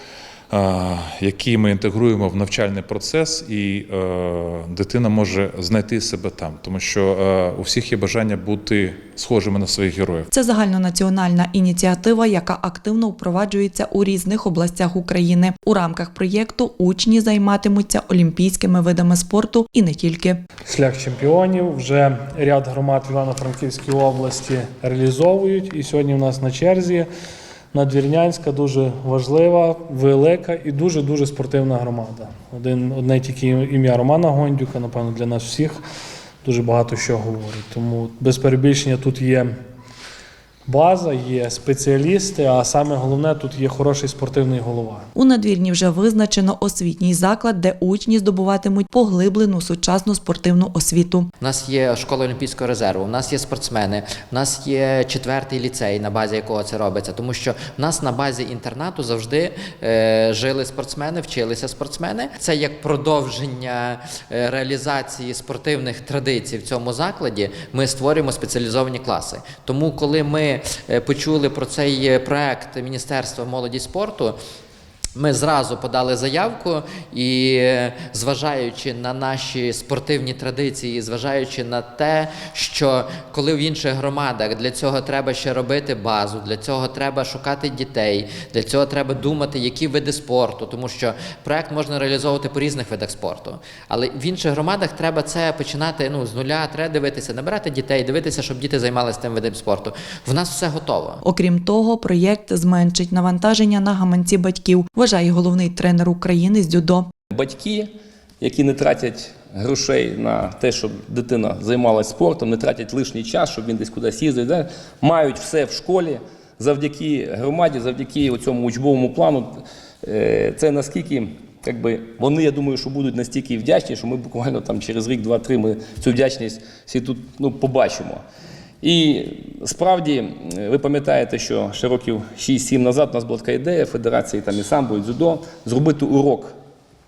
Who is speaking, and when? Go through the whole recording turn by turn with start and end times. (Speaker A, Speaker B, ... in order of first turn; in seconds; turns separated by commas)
Speaker A: 0.5-10.3, Speaker B: 10.3-20.4, Speaker C: 20.7-27.1, Speaker C: 27.7-35.8, Speaker C: 36.4-39.5, Speaker C: 40.7-45.1, Speaker B: 45.1-51.3, Speaker D: 51.4-74.3, Speaker D: 75.1-101.2, Speaker B: 101.2-107.1, Speaker E: 107.3-107.9, Speaker E: 108.4-128.2, Speaker E: 128.8-136.5